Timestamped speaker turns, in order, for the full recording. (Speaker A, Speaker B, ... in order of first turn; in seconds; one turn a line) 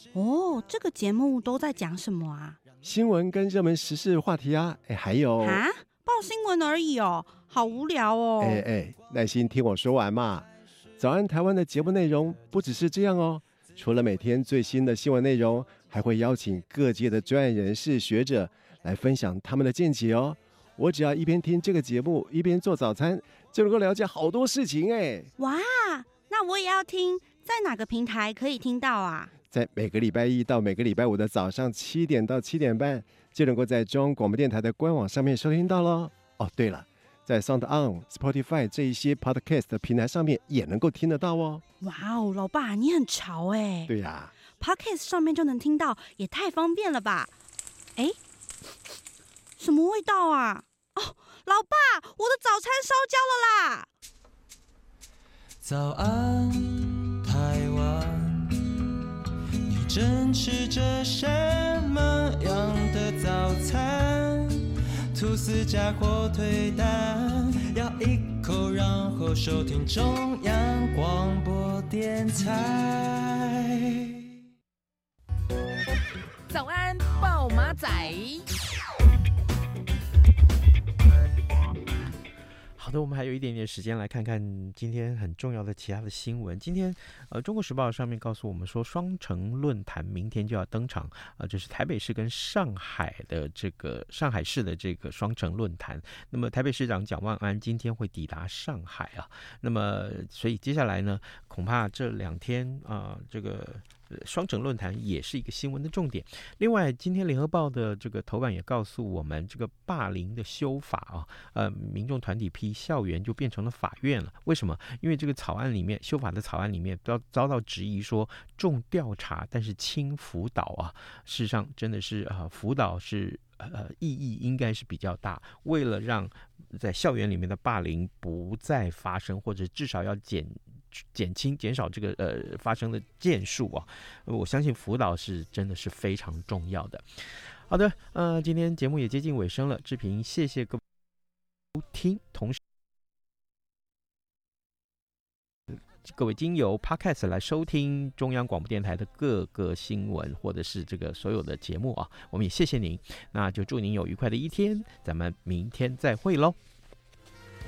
Speaker A: 0.1-2.6
Speaker B: 2.8-5.6
Speaker A: 5.4-8.6
Speaker B: 8.4-10.5
Speaker B: 11.0-25.3
Speaker A: 25.4-29.3
Speaker B: 29.5-41.6
Speaker A: 41.8-43.9
Speaker B: 43.9-44.3
Speaker A: 44.6-47.3
Speaker A: 49.6-53.9
Speaker C: 55.6-58.5
Speaker C: 59.6-74.0
Speaker D: 76.5-78.4
Speaker E: 82.8-140.8
Speaker E: 141.7-142.6
Speaker E: 146.0-156.6